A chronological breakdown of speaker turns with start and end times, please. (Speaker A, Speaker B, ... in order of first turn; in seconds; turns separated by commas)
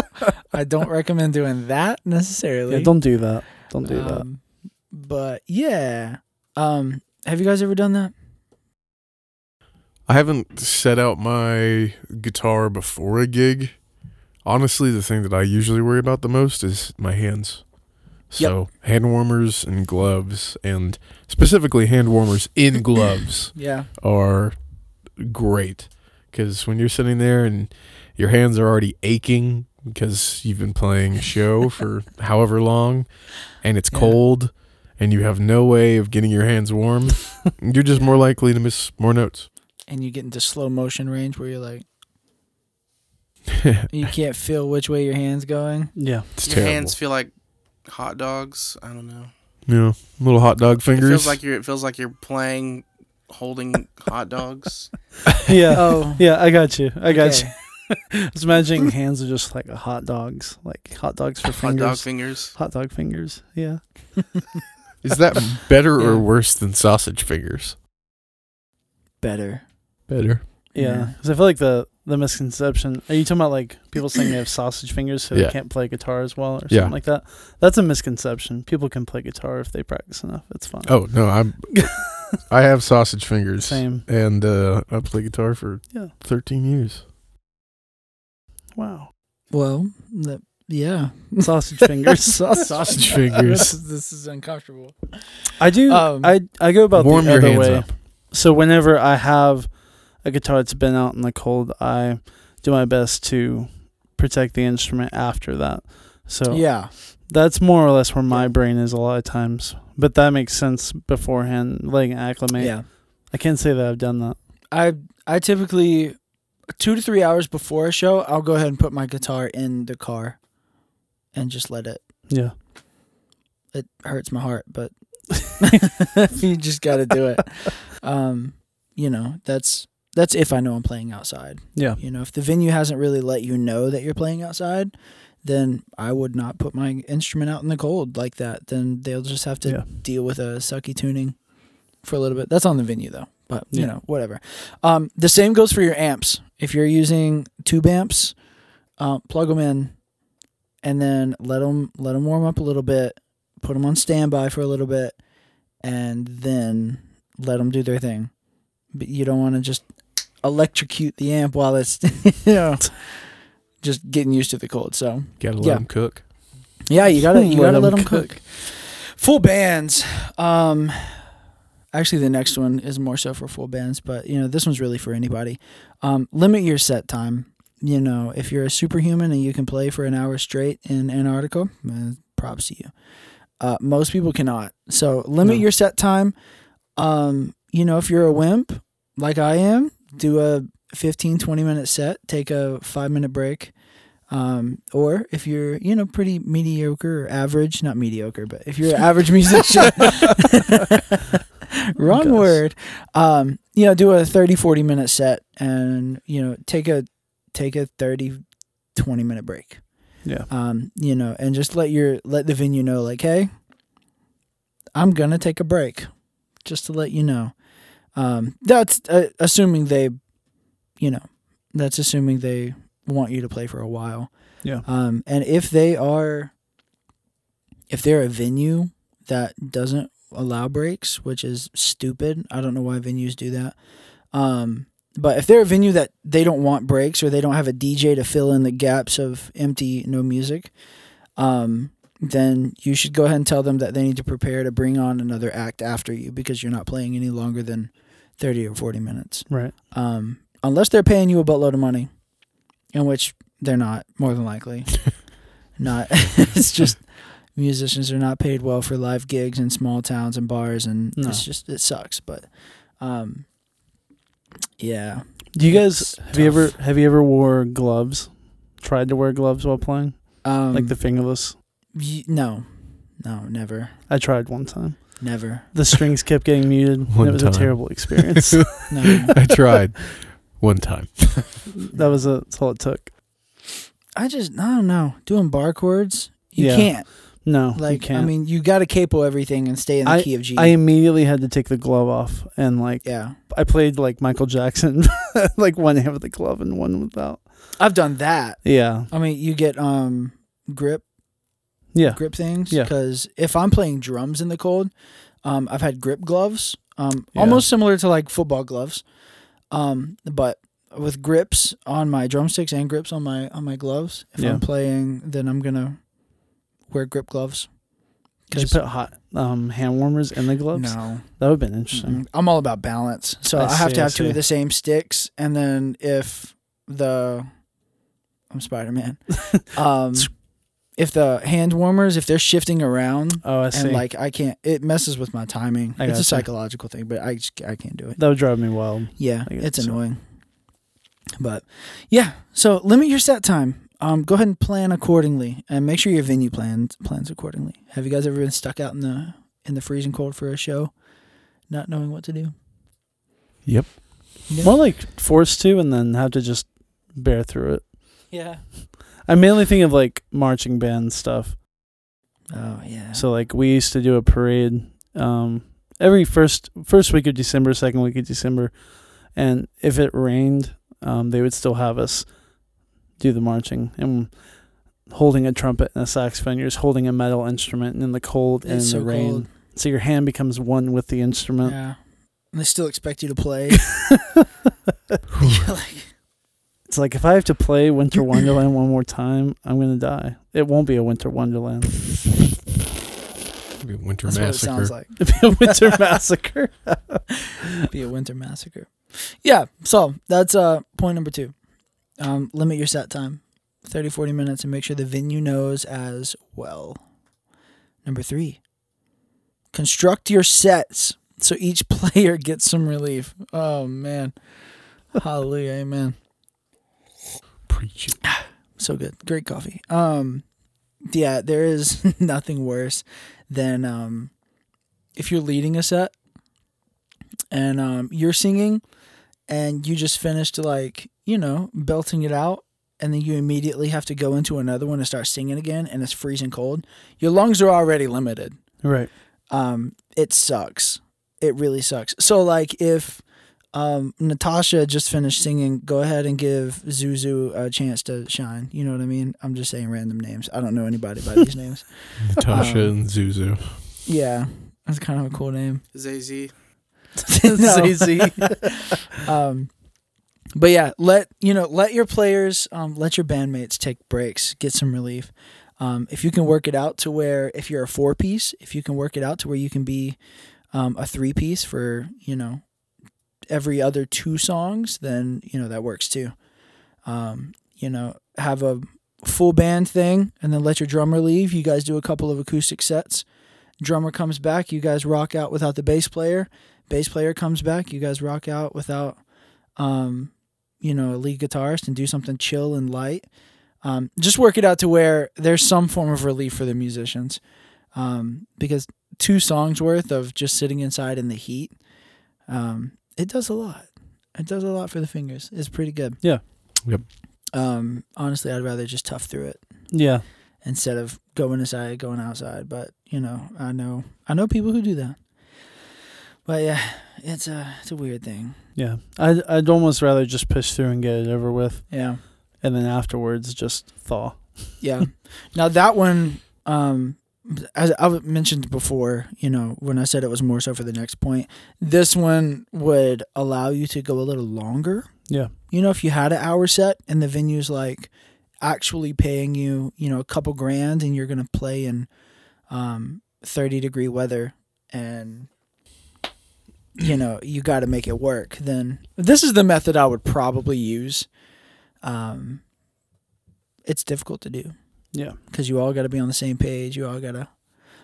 Speaker A: 0.5-8.1, Speaker B: 2.7-4.3, Speaker C: 10.1-39.5, Speaker A: 23.6-23.9, Speaker A: 33.9-34.2, Speaker A: 39.9-41.9, Speaker A: 43.9-45.9, Speaker B: 46.0-46.3, Speaker C: 46.4-47.0, Speaker D: 46.4-49.3, Speaker C: 49.7-51.4, Speaker D: 50.9-55.0, Speaker B: 55.5-64.6, Speaker A: 55.7-56.3, Speaker A: 57.1-57.9, Speaker D: 61.5-62.6, Speaker C: 65.0-67.8, Speaker A: 66.0-66.3, Speaker A: 69.2-69.7, Speaker C: 70.1-70.5, Speaker B: 70.7-82.1, Speaker A: 70.8-71.2, Speaker C: 75.3-77.0, Speaker C: 80.9-87.0, Speaker B: 83.6-84.1, Speaker B: 88.7-89.1, Speaker A: 89.5-96.3, Speaker B: 91.4-92.7, Speaker C: 92.7-93.7, Speaker B: 95.6-114.4, Speaker C: 96.9-97.9, Speaker A: 106.5-106.9, Speaker A: 108.3-108.5, Speaker A: 112.6-112.9, Speaker A: 114.7-120.5, Speaker A: 121.3-122.1, Speaker B: 122.3-122.5, Speaker A: 123.7-150.1, Speaker B: 131.7-132.0, Speaker A: 150.8-166.3, Speaker C: 165.4-166.3, Speaker A: 166.9-171.3, Speaker B: 167.3-168.3, Speaker A: 171.9-182.9, Speaker A: 183.6-186.3, Speaker A: 187.0-200.9, Speaker A: 201.9-213.6, Speaker B: 202.1-202.6, Speaker A: 214.9-226.6, Speaker A: 227.9-252.4, Speaker B: 249.5-249.7, Speaker A: 252.9-263.5, Speaker B: 261.2-261.4, Speaker A: 264.8-266.8, Speaker B: 265.5-271.6, Speaker A: 270.4-271.1, Speaker A: 271.9-274.0, Speaker B: 274.1-278.9, Speaker A: 275.2-275.7, Speaker C: 277.1-281.6, Speaker A: 278.9-279.3, Speaker B: 281.7-283.1, Speaker A: 284.2-290.8, Speaker B: 286.6-288.3, Speaker B: 290.0-298.0, Speaker A: 293.0-293.4, Speaker A: 297.8-301.1, Speaker B: 298.6-299.1, Speaker B: 301.9-302.9, Speaker A: 302.0-318.8, Speaker B: 307.3-307.7, Speaker B: 314.4-314.6, Speaker B: 318.5-322.2, Speaker A: 320.7-327.7, Speaker B: 323.5-324.4, Speaker A: 328.5-340.7, Speaker B: 333.4-334.1, Speaker B: 336.0-336.5, Speaker B: 338.2-340.1, Speaker A: 341.4-351.0, Speaker A: 351.6-352.5, Speaker C: 353.6-354.4, Speaker A: 354.5-354.7, Speaker B: 354.6-358.6, Speaker A: 358.3-358.7, Speaker B: 359.2-361.6, Speaker A: 362.5-363.3, Speaker B: 363.1-381.8, Speaker A: 378.6-379.5, Speaker A: 381.6-384.1, Speaker C: 385.3-385.6, Speaker A: 385.4-386.1, Speaker B: 386.9-392.2, Speaker C: 393.8-394.9, Speaker A: 394.3-396.0, Speaker B: 395.2-397.5, Speaker A: 397.9-407.1, Speaker A: 408.0-408.6, Speaker A: 409.7-414.4, Speaker A: 415.0-416.2, Speaker C: 417.7-418.2, Speaker A: 418.2-420.5, Speaker A: 421.1-424.4, Speaker A: 425.1-426.2, Speaker A: 427.5-438.8, Speaker B: 438.8-439.1, Speaker A: 439.5-453.0, Speaker C: 452.2-453.9, Speaker A: 454.1-455.8, Speaker D: 455.9-456.5, Speaker B: 457.2-459.0, Speaker A: 457.3-458.6, Speaker A: 459.2-459.9, Speaker A: 460.6-470.2, Speaker A: 470.7-472.8, Speaker A: 473.4-501.9, Speaker A: 502.4-506.8, Speaker A: 507.5-515.7, Speaker B: 509.9-510.2, Speaker A: 516.5-518.6, Speaker B: 518.8-525.0, Speaker A: 521.9-522.2, Speaker A: 524.8-545.5, Speaker A: 547.0-551.3, Speaker A: 552.0-552.7, Speaker A: 553.9-557.7, Speaker B: 555.1-555.4